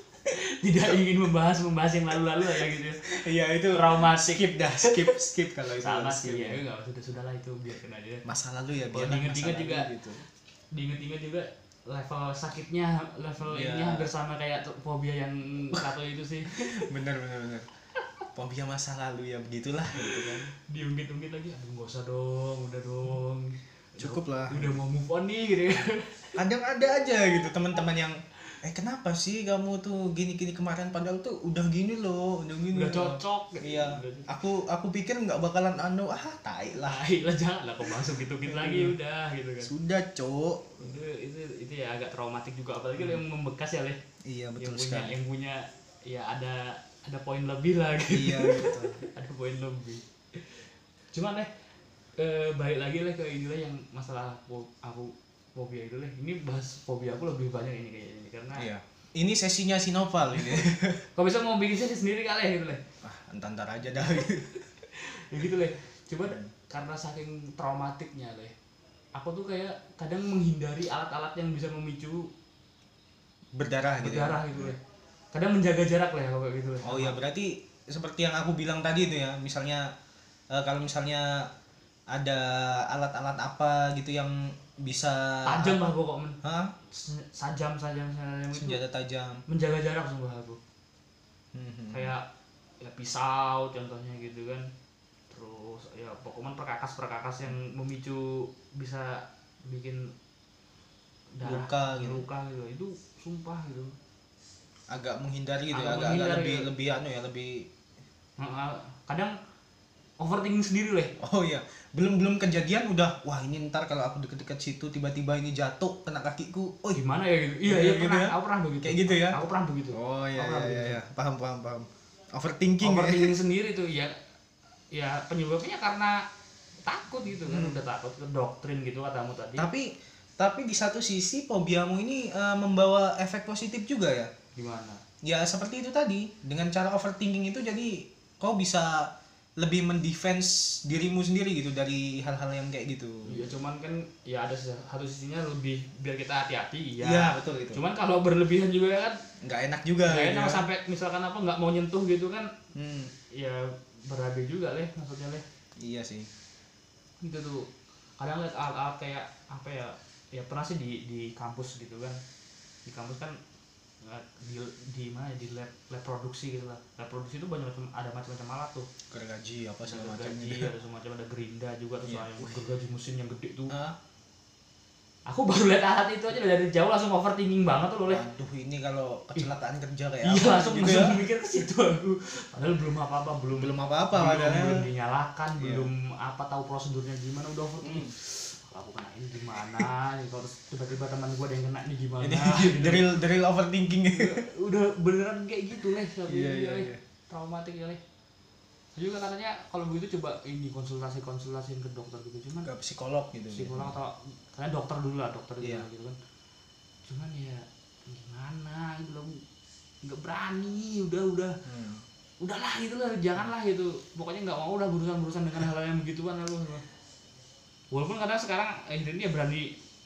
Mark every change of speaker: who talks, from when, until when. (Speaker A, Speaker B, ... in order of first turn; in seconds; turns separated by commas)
Speaker A: 0.3-3.2, Speaker B: 2.4-6.6, Speaker A: 3.7-5.1, Speaker A: 5.7-8.2, Speaker B: 8.2-10.2, Speaker A: 8.9-9.9, Speaker A: 10.7-16.9, Speaker B: 13.4-14.1, Speaker B: 16.5-17.7, Speaker B: 18.3-20.5, Speaker A: 19.9-26.4, Speaker B: 24.0-24.8, Speaker B: 26.4-37.0, Speaker A: 32.7-34.3, Speaker A: 36.7-39.7, Speaker B: 37.9-39.0, Speaker B: 39.6-40.9, Speaker A: 40.8-44.0, Speaker B: 43.0-43.2, Speaker B: 44.2-45.2, Speaker A: 44.6-51.5, Speaker B: 48.1-49.0, Speaker A: 52.2-58.7, Speaker B: 58.5-61.1, Speaker A: 61.1-62.8, Speaker B: 63.0-64.6, Speaker A: 64.0-64.3, Speaker A: 64.8-68.5, Speaker B: 66.3-66.5, Speaker A: 69.1-72.3, Speaker B: 73.5-74.7, Speaker A: 74.0-74.8, Speaker A: 75.3-77.2, Speaker B: 76.8-79.9, Speaker B: 80.5-81.5, Speaker B: 82.1-85.8, Speaker A: 85.5-86.4, Speaker B: 86.4-86.7, Speaker A: 86.9-88.8, Speaker B: 88.5-89.4, Speaker A: 89.5-90.6, Speaker B: 91.5-92.1, Speaker A: 91.9-92.2, Speaker A: 92.8-94.7, Speaker A: 95.3-100.1, Speaker A: 101.4-103.9, Speaker B: 101.4-102.2, Speaker B: 104.9-107.7, Speaker A: 105.7-106.7, Speaker A: 108.4-109.3, Speaker A: 110.2-111.1, Speaker B: 111.2-117.0, Speaker A: 116.9-121.0, Speaker B: 117.7-119.4, Speaker B: 119.9-123.3, Speaker A: 122.8-124.1, Speaker A: 124.9-126.2, Speaker A: 126.8-129.7, Speaker B: 127.4-127.8, Speaker B: 129.6-134.3, Speaker A: 134.6-135.0, Speaker B: 135.2-143.4, Speaker A: 143.2-149.2, Speaker B: 147.0-147.8, Speaker B: 149.4-150.6, Speaker A: 150.1-152.5, Speaker B: 152.7-153.1, Speaker A: 153.3-155.4, Speaker B: 155.8-156.3, Speaker A: 157.2-157.7, Speaker A: 158.2-162.2, Speaker A: 162.8-163.4, Speaker A: 164.0-168.9, Speaker B: 169.1-170.7, Speaker A: 169.9-173.7, Speaker B: 172.0-172.6, Speaker B: 173.7-174.0, Speaker A: 175.3-178.2, Speaker B: 178.1-181.2, Speaker A: 180.2-193.1, Speaker B: 183.5-184.8, Speaker B: 185.6-185.9, Speaker B: 187.8-188.1, Speaker B: 192.2-194.4, Speaker A: 194.1-198.0, Speaker B: 196.2-197.0, Speaker A: 198.9-202.7, Speaker B: 202.6-203.9, Speaker A: 203.5-206.2, Speaker B: 205.6-205.9, Speaker A: 207.1-209.4, Speaker A: 210.0-211.6, Speaker B: 211.6-212.0, Speaker A: 212.4-216.8, Speaker A: 217.9-219.7